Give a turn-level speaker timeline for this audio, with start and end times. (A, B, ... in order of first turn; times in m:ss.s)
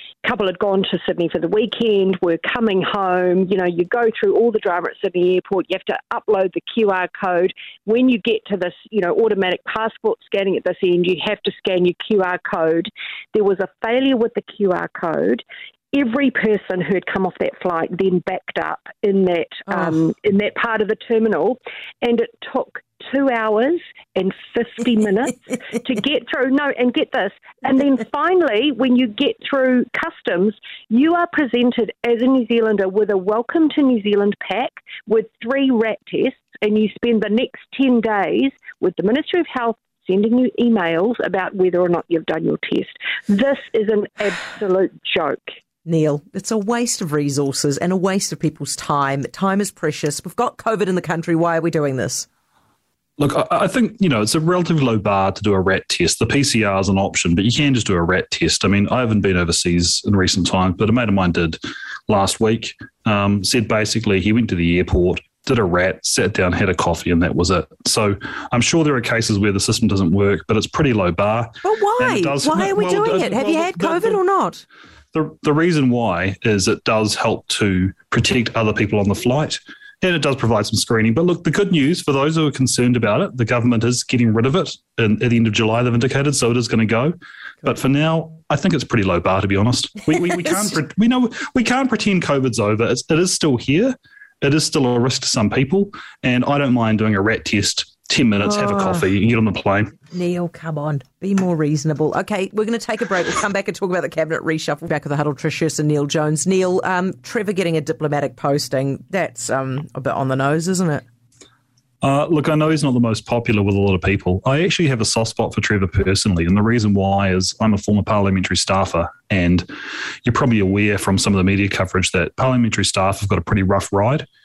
0:00.2-0:45.4 A
0:45.8-0:52.3 B
0:53.2-1:14.2 C
1:11.6-1:14.6 B
1:15.1-1:40.0 C
1:38.7-1:39.0 B
1:40.1-1:51.0 B
1:52.0-1:59.7 C
2:00.2-2:04.3 C